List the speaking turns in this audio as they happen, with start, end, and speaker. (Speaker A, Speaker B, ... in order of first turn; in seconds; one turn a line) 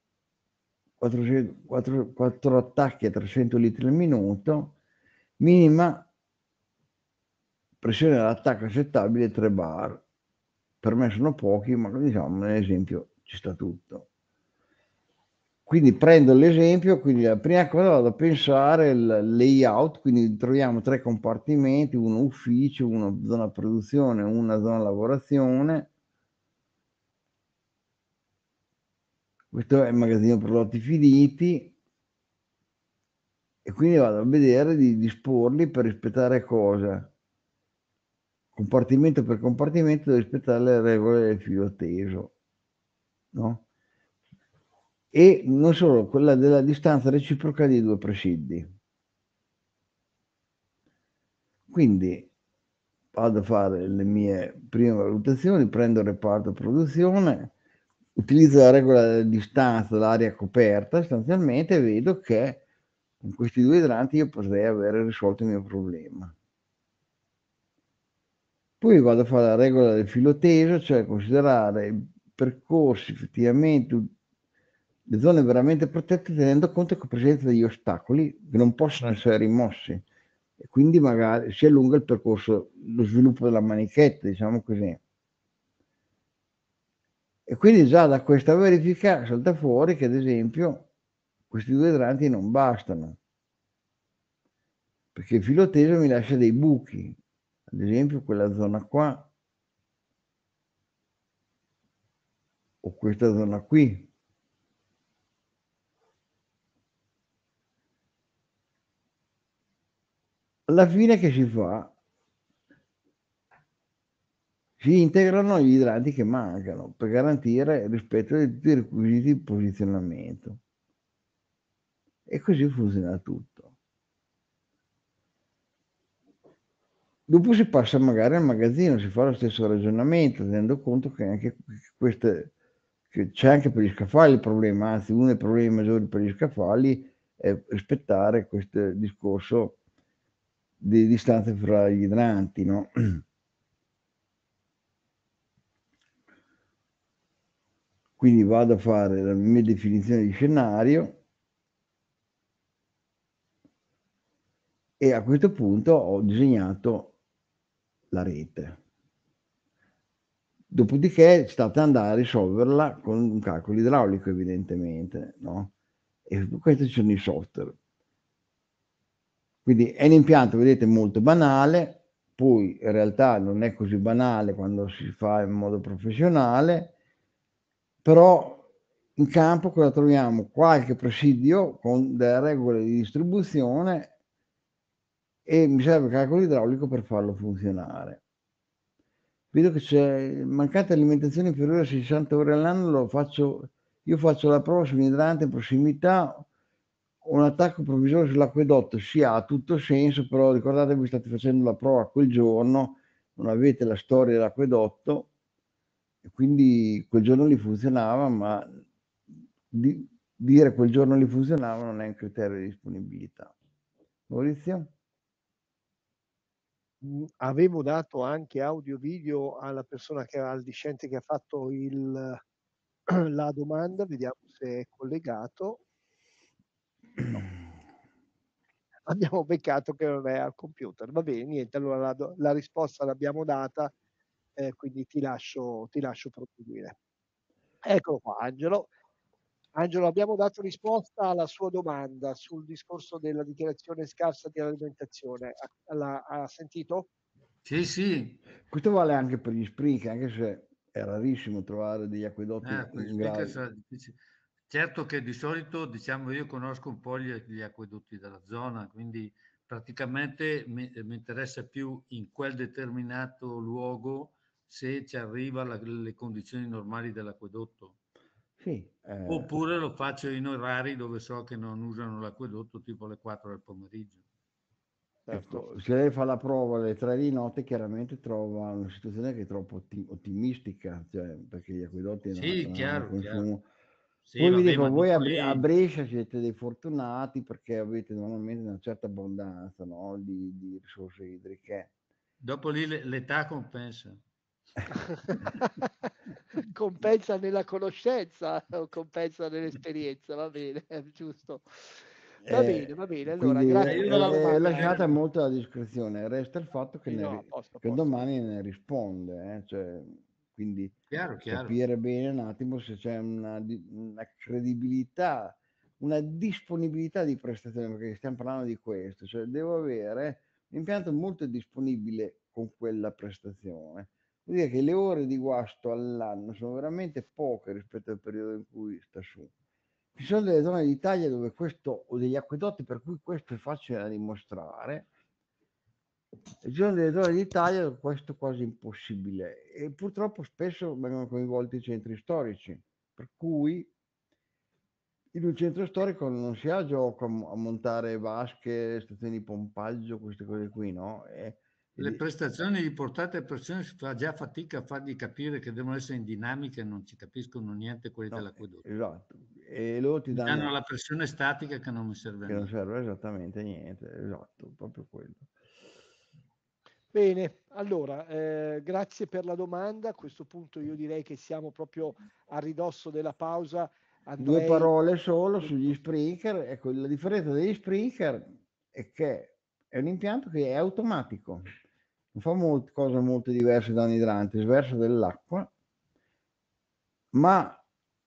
Speaker A: 1.0-4.8
Speaker A: 5.4-6.1
Speaker A: 7.8-10.0
Speaker A: 10.8-14.1
Speaker A: 15.7-25.9
Speaker A: 29.5-31.8
Speaker A: 33.6-37.1
Speaker A: 38.5-42.3
Speaker A: 43.3-43.6
Speaker A: 45.1-48.7
Speaker A: 51.7-52.3
Speaker A: 53.1-57.5
Speaker A: 58.2-62.6
Speaker A: 63.2-66.3
Speaker A: 68.8-74.1
Speaker A: 75.1-80.0
Speaker A: 80.6-85.0
Speaker A: 87.5-90.9
Speaker A: 91.5-93.2
Speaker A: 95.2-97.2
Speaker A: 97.7-99.3
Speaker A: 102.8-104.1
Speaker A: 110.7-111.9
Speaker A: 114.8-120.6
Speaker A: 122.3-123.7
Speaker A: 127.3-132.5
Speaker A: 133.1-139.8
Speaker A: 140.8-143.2
Speaker A: 148.2-151.2
Speaker A: 155.0-157.1
Speaker A: 158.1-158.8
Speaker A: 160.7-165.7
Speaker A: 166.3-167.8
Speaker A: 169.7-176.9
Speaker A: 178.0-178.6
Speaker A: 179.2-184.1
Speaker A: 185.5-188.2
Speaker A: 189.5-196.5
Speaker A: 197.2-205.3
Speaker A: 206.2-208.8
Speaker A: 209.7-213.5
Speaker A: 214.3-214.9
Speaker B: 217.0-222.4
Speaker B: 223.1-225.8
Speaker B: 229.1-233.9
Speaker B: 234.6-236.9
Speaker B: 237.8-238.9
Speaker B: 239.8-247.1
Speaker C: 247.6-248.4
Speaker A: 248.7-253.6
Speaker C: 252.6-254.2
Speaker C: 254.7-267.9
Speaker A: 268.6-269.5
Speaker C: 269.3-274.2
Speaker B: 275.3-275.7
Speaker A: 275.3-283.6
Speaker C: 282.3-283.5
Speaker C: 284.3-285.7
Speaker A: 284.4-291.9
Speaker C: 292.4-294.2
Speaker B: 295.2-295.8
Speaker B: 296.6-301.6
Speaker A: 302.4-311.0
Speaker B: 302.5-305.1
Speaker C: 303.7-305.2
Speaker B: 307.1-308.2
Speaker C: 311.1-311.8
Speaker A: 311.5-329.5
Speaker A: 330.2-335.1
Speaker A: 336.6-343.9
Speaker A: 345.3-352.2
Speaker C: 352.0-358.9
Speaker A: 358.3-360.7
Speaker C: 360.3-362.7
Speaker A: 362.5-365.5
Speaker B: 367.1-374.9
Speaker A: 374.4-381.7
Speaker A: 382.4-385.7
Speaker A: 387.3-387.8